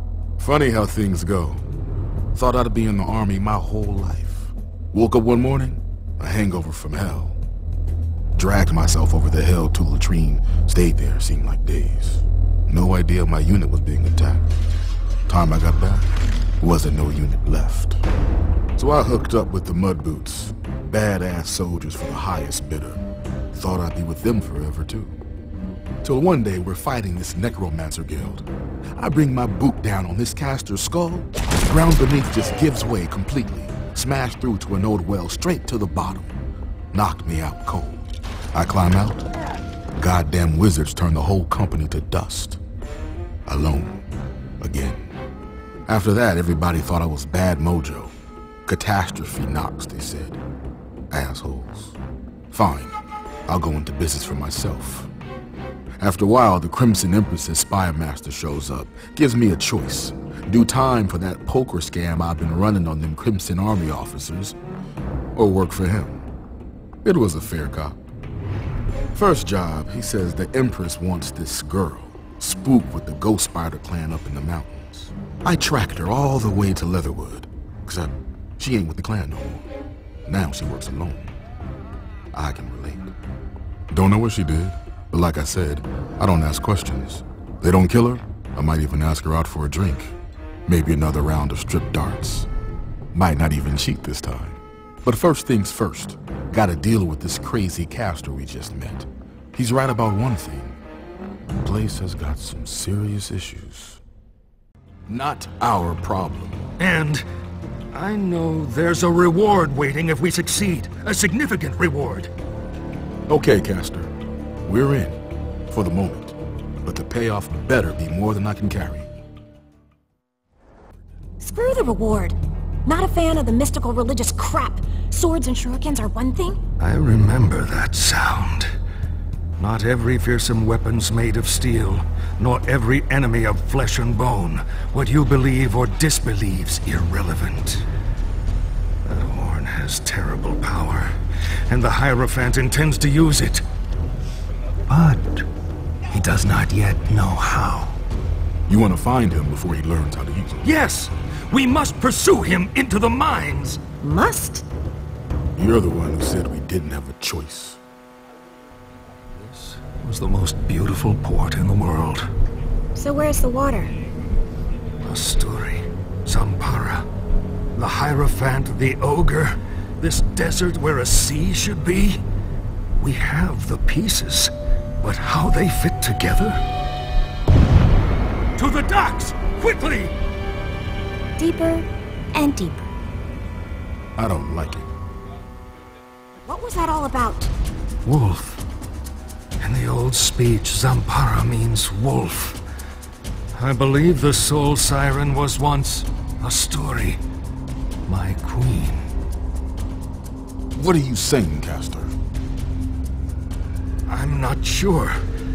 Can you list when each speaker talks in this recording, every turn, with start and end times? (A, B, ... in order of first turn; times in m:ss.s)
0:00.4-0:01.6 A
0:02.3-0:07.4 A
0:08.3-0:14.4 A
0:15.3-0:16.0 A
0:16.6-0:18.0 A
0:18.8-0:25.1 A
0:26.0-0:28.4 A
0:29.0-0:36.3 A
0:36.9-0:39.2 A
0:40.0-0:42.6 A
0:43.5-0:44.0 A
0:44.6-0:45.1 A
0:45.9-0:48.1 A
0:48.6-0:50.4 A
0:51.1-0:52.0 A
0:52.5-0:53.0 A
0:53.5-0:55.1 A
0:56.0-1:04.6 A
1:05.4-1:06.3 A
1:07.0-1:08.0 A
1:09.1-1:19.6 A
1:20.2-1:21.3 A
1:22.3-1:23.1 A
1:23.9-1:30.1 A
1:30.7-1:32.5 A
1:33.1-1:40.8 A
1:41.6-1:44.0 A
1:45.1-1:46.6 A
1:46.8-1:47.2 B
1:47.9-1:52.3 B
1:53.3-1:54.1 A
1:54.6-1:55.2 A
1:55.7-1:59.1 A
2:01.4-2:06.6 C
2:06.8-2:08.7 B
2:09.6-2:17.8 B
2:19.0-2:23.6 B
2:24.9-2:25.5 B
2:26.1-2:28.0 B
2:28.7-2:30.7 A
2:30.6-2:33.8 B
2:34.0-2:34.6 C
2:35.6-2:37.8 A
2:39.3-2:42.3 B
2:43.0-2:43.9 C
2:45.0-2:47.0 B
2:47.8-2:52.2 B
2:53.0-2:56.6 B
2:58.6-3:00.1 B
3:01.4-3:02.9 C
3:04.2-3:04.9 A
3:06.4-3:07.5 C
3:08.0-3:08.6 B
3:09.6-3:12.6 B
3:13.5-3:17.2 B
3:18.1-3:19.1 B
3:20.7-3:22.1 A
3:24.1-3:25.2 B